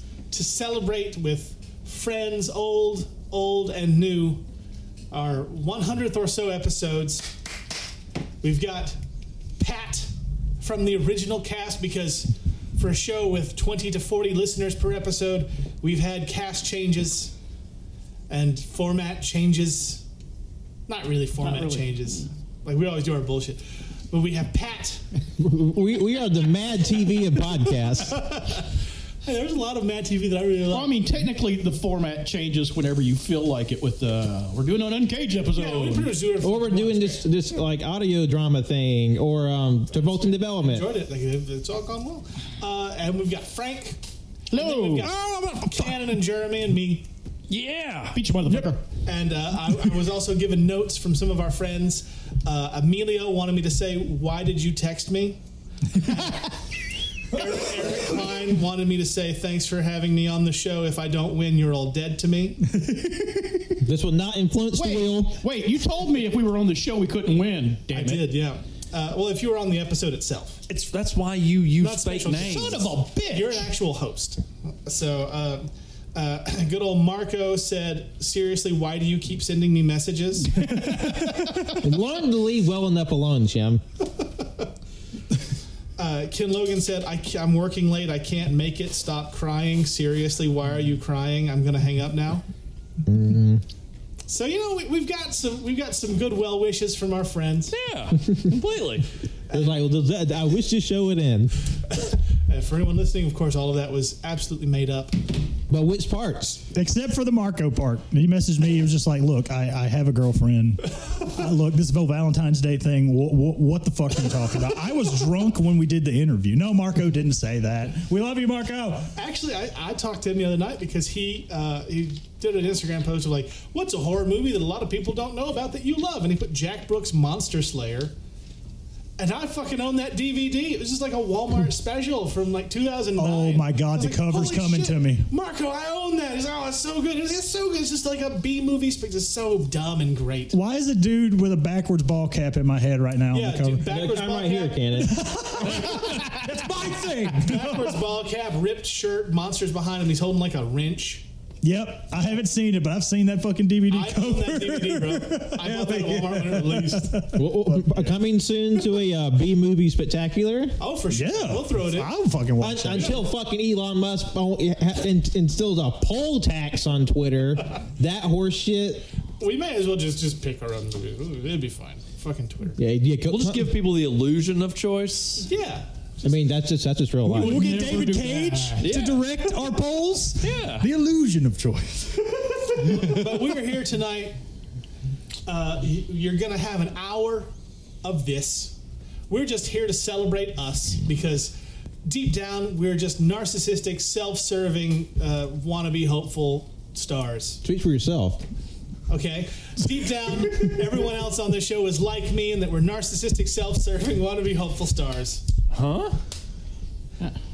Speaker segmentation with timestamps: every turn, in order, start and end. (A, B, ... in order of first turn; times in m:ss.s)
0:00.3-0:04.4 A
0:05.1-0:07.3 A
0:08.4-0:09.0 A
0:09.6-0:17.3 A
0:18.3-0:20.0 A
0:20.9-0:25.0 A
0:21.4-0:22.0 B
0:25.4-0:28.2 C
0:28.0-0:28.6 A
0:29.2-0:31.0 A
0:30.7-0:36.2 B
0:35.5-0:37.2 A
0:36.4-0:40.9 C
0:39.9-0:44.0 A
0:44.5-0:46.1 B
0:44.5-0:47.0 A
0:47.5-0:48.2 D
0:48.1-0:48.8 B
0:49.0-0:55.4 A
0:55.9-0:56.4 A
0:57.3-1:02.6 A
1:02.7-1:03.8 E
1:03.8-1:05.4 C
1:04.7-1:08.3 B
1:07.9-1:10.6 A
1:10.7-1:12.9 D
1:11.8-1:21.3 A
1:12.3-1:13.7 B
1:20.6-1:21.5 E
1:21.8-1:23.8 C
1:26.0-1:32.4 A
1:33.0-1:33.6 C
1:34.3-1:37.8 A
1:37.7-1:39.0 D
1:39.5-1:41.5 C
1:42.4-1:45.2 A
1:45.7-1:46.7 C
1:46.7-1:59.1 E
1:59.1-2:08.1 A
2:09.2-2:20.6 A
2:13.2-2:15.3 E
2:20.5-2:23.9 E
2:23.3-2:24.8 A
2:23.8-2:25.4 C
2:25.1-2:28.0 E
2:25.7-2:26.3 D
2:27.3-2:31.2 A
2:31.6-2:38.1 E
2:33.9-2:37.2 A
2:37.3-2:40.8 C
2:40.8-2:42.1 A
2:41.1-2:43.2 E
2:42.6-2:49.0 C
2:49.4-2:52.8 A
2:52.8-2:53.7 C
2:53.3-2:55.5 D
2:55.4-2:56.4 A
2:56.2-2:57.6 C
2:57.2-2:58.9 B
2:57.3-3:03.5 E
2:58.8-2:59.2 D
3:00.4-3:00.9 D
3:02.8-3:04.4 A
3:05.4-3:07.5 A
3:08.0-3:08.8 A
3:09.3-3:17.6 A
3:17.6-3:18.4 C
3:19.1-3:25.4 A
3:25.7-3:26.2 D